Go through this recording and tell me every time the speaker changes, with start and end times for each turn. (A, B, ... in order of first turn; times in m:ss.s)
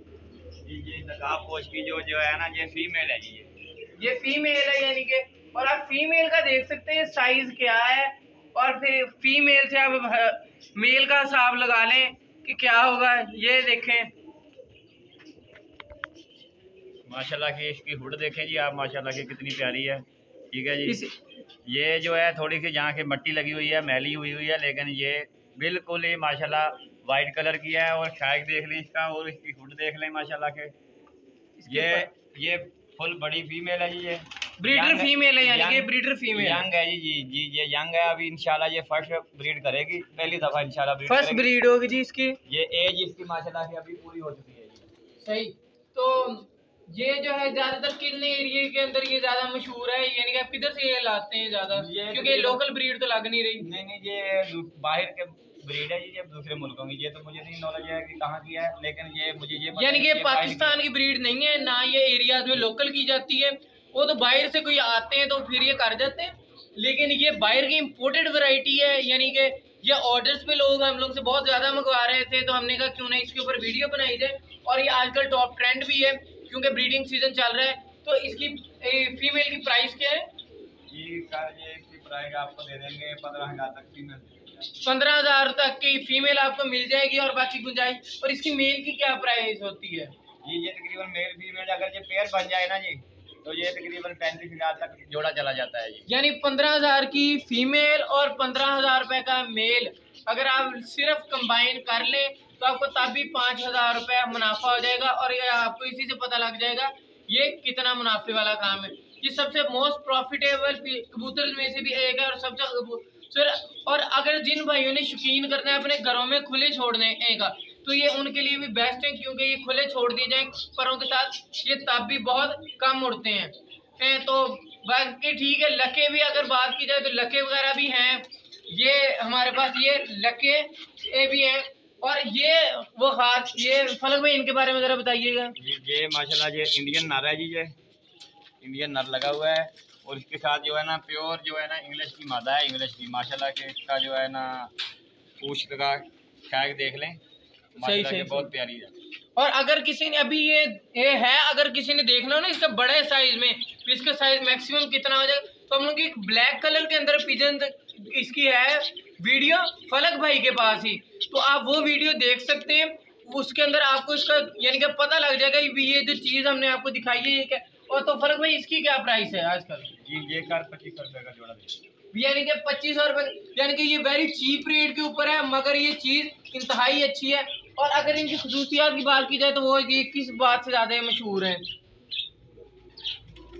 0:00.6-0:03.5 A
0:04.0-0:14.1 B
0:17.1-0:21.0 A
0:20.9-0:21.1 B
0:21.6-0:30.7 A
0:31.6-0:32.1 B
0:31.7-0:41.5 A
0:34.6-0:36.6 B
0:41.1-0:42.4 B
0:42.5-0:44.9 A
0:45.2-0:53.7 B
0:51.7-0:52.6 A
0:53.6-1:00.8 A
0:59.7-1:20.3 B
1:20.9-1:24.7 A
1:24.8-1:30.1 B
1:30.4-1:36.1 A
1:36.1-2:15.5 B
2:15.6-2:17.7 A
2:18.6-2:24.7 A
2:25.4-2:27.2 A
2:27.8-2:28.5 B
2:27.8-2:28.9 A
2:29.4-2:49.9 B
2:50.0-2:51.8 A
2:52.1-3:01.6 B